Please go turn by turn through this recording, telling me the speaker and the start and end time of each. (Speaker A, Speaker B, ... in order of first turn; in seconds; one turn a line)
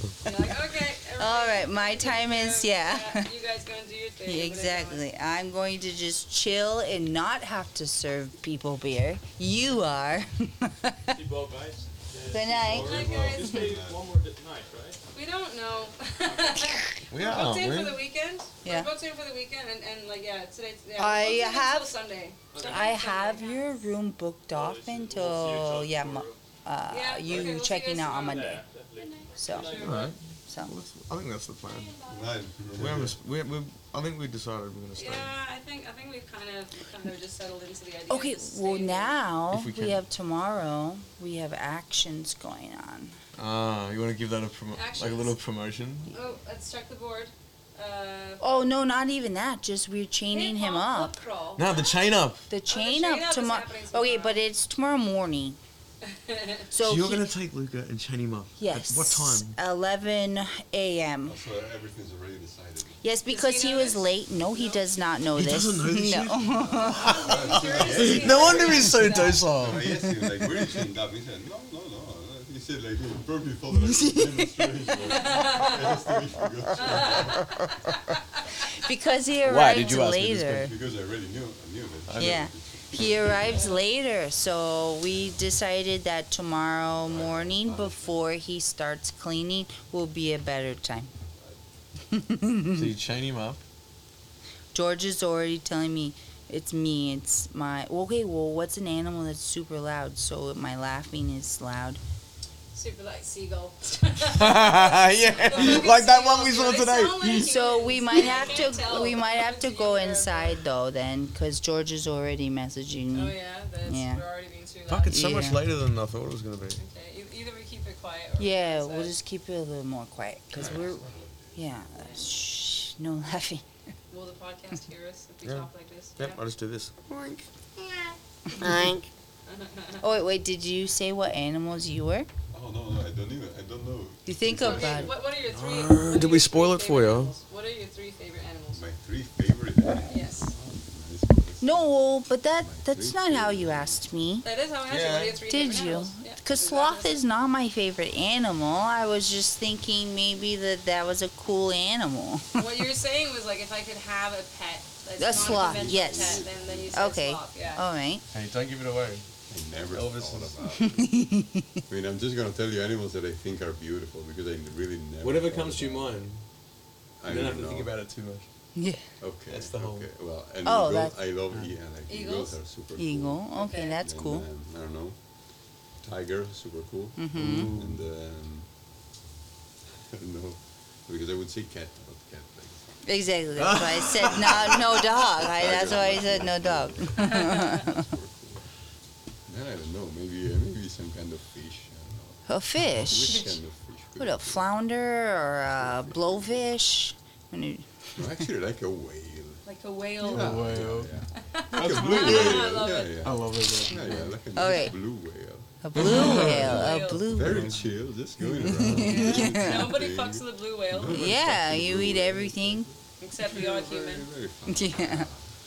Speaker A: 0.2-5.0
Speaker B: 1.2-3.3
Speaker B: 4.2-11.2
Speaker C: 11.1-15.0
Speaker B: 12.3-13.1
Speaker D: 12.4-14.0
Speaker A: 12.7-13.7
Speaker A: 15.1-23.8
Speaker E: 17.1-18.0
Speaker B: 18.6-18.9
Speaker B: 21.0-21.9
Speaker C: 22.5-23.1
Speaker B: 22.6-28.6
Speaker C: 24.5-26.4
Speaker A: 26.9-28.6
Speaker C: 27.3-30.1
Speaker B: 29.4-30.7
Speaker E: 29.8-31.9
Speaker D: 32.1-33.1
Speaker E: 32.8-35.3
Speaker A: 35.0-39.1
Speaker B: 38.1-43.1
Speaker E: 39.5-40.0
Speaker E: 43.4-46.1
Speaker A: 44.7-45.4
Speaker A: 46.1-48.6
Speaker B: 48.4-51.1
Speaker A: 50.3-51.9
Speaker E: 51.6-52.5
Speaker B: 52.5-55.6
Speaker A: 52.7-54.4
Speaker A: 56.0-56.7
Speaker B: 56.7-57.3
Speaker E: 56.8-59.6
Speaker B: 58.6-61.4
Speaker D: 61.2-63.0
Speaker B: 63.0-67.2
Speaker A: 63.3-64.8
Speaker E: 65.3-70.1
Speaker A: 66.8-69.4
Speaker D: 67.0-77.6
Speaker B: 68.6-69.0
Speaker B: 73.9-74.7
Speaker A: 75.0-75.8
Speaker A: 76.8-77.3
Speaker B: 78.7-80.7
Speaker E: 79.4-80.7
Speaker D: 80.5-83.7
Speaker E: 82.1-82.5
Speaker B: 82.2-91.1
Speaker D: 85.1-85.3
Speaker D: 87.0-88.2
Speaker B: 92.1-92.9
Speaker E: 92.7-93.6
Speaker B: 94.7-102.0
Speaker A: 102.7-110.6
Speaker E: 104.3-107.5
Speaker B: 107.3-114.2
Speaker A: 113.1-115.5
Speaker E: 114.9-116.8
Speaker B: 115.1-115.6
Speaker A: 116.8-119.1
Speaker B: 118.4-121.0
Speaker D: 120.6-122.1
Speaker B: 121.6-123.6
Speaker A: 124.1-126.4
Speaker E: 126.2-129.1
Speaker B: 128.6-129.0
Speaker A: 129.5-130.0
Speaker B: 130.0-132.3
Speaker D: 132.5-135.1
Speaker B: 134.3-135.1
Speaker A: 134.5-138.8
Speaker E: 135.4-137.3
Speaker D: 138.7-141.9
Speaker A: 140.1-140.5
Speaker B: 141.6-144.5
Speaker D: 142.6-144.1
Speaker A: 144.4-147.2
Speaker E: 144.9-145.4
Speaker B: 145.5-152.7
Speaker A: 152.6-157.8
Speaker B: 155.2-158.2
Speaker D: 155.3-157.1
Speaker E: 158.3-159.3
Speaker D: 159.5-161.3
Speaker E: 159.9-160.6
Speaker B: 160.8-161.8
Speaker D: 161.9-166.2
Speaker E: 165.2-166.4
Speaker D: 167.2-167.9
Speaker E: 167.3-168.5
Speaker B: 168.8-169.1
Speaker D: 169.2-175.2
Speaker E: 169.5-170.1
Speaker B: 170.7-171.2
Speaker A: 172.1-172.6
Speaker B: 173.0-174.4
Speaker A: 173.6-174.0
Speaker D: 176.0-178.7
Speaker B: 177.2-177.7
Speaker E: 177.3-178.0
Speaker D: 180.1-183.0
Speaker B: 183.1-188.1
Speaker E: 183.6-184.9
Speaker D: 184.2-188.7
Speaker A: 187.2-187.7
Speaker D: 189.5-194.7
Speaker B: 192.5-193.5
Speaker B: 194.2-198.4
Speaker D: 195.7-196.7
Speaker D: 198.2-199.6
Speaker A: 199.7-200.7
Speaker E: 200.2-201.1
Speaker D: 200.2-205.7
Speaker A: 201.4-203.4
Speaker E: 201.7-204.4
Speaker B: 204.6-205.0
Speaker B: 205.8-207.8
Speaker E: 206.0-206.9
Speaker A: 206.0-207.5
Speaker D: 206.3-215.4
Speaker B: 208.6-209.9
Speaker A: 208.9-211.3
Speaker B: 211.0-212.9
Speaker A: 213.2-214.3
Speaker B: 214.7-215.3